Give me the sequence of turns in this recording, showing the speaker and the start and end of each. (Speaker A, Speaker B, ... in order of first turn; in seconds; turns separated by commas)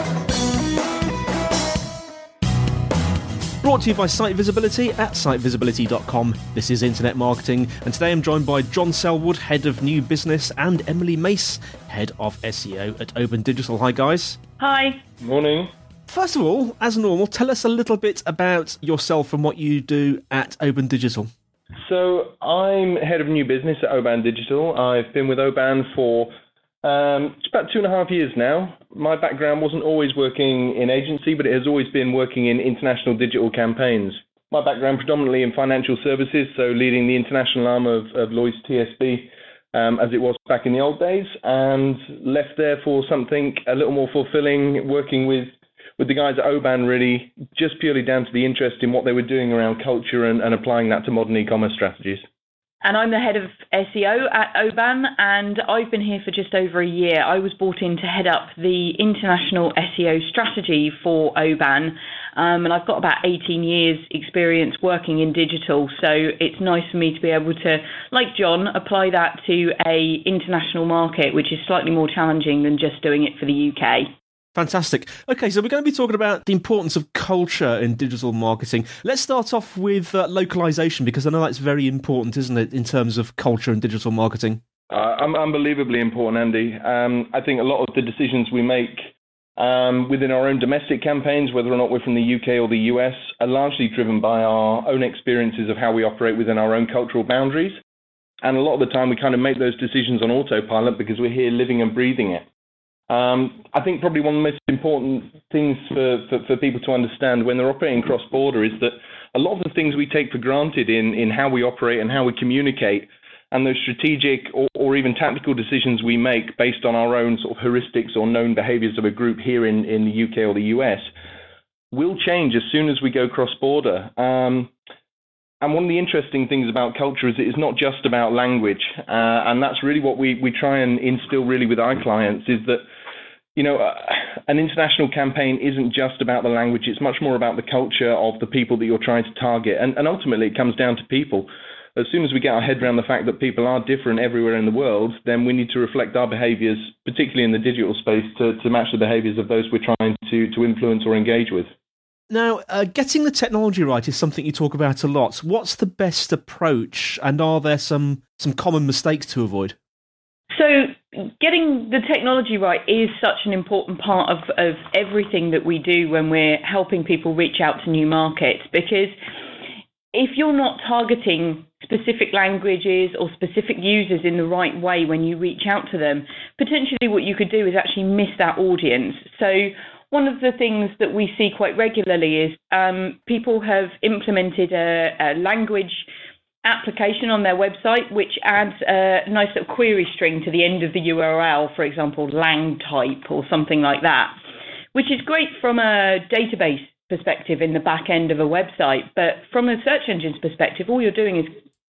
Speaker A: 3.6-14.4, Speaker B: 14.6-15.0, Speaker C: 15.2-15.7, Speaker A: 16.1-21.3, Speaker C: 21.8-26.3, Speaker C: 26.8-52.2, Speaker B: 52.8-74.1, Speaker A: 74.5-84.6, Speaker C: 84.9-97.8, Speaker C: 98.4-102.5, Speaker C: 103.1-121.1, Speaker C: 121.9-124.7, Speaker C: 125.6-132.8, Speaker C: 133.5-151.7, Speaker A: 152.3-159.8, Speaker B: 160.5-169.1, Speaker B: 170.1-186.1, Speaker B: 186.6-194.4, Speaker B: 194.9-201.5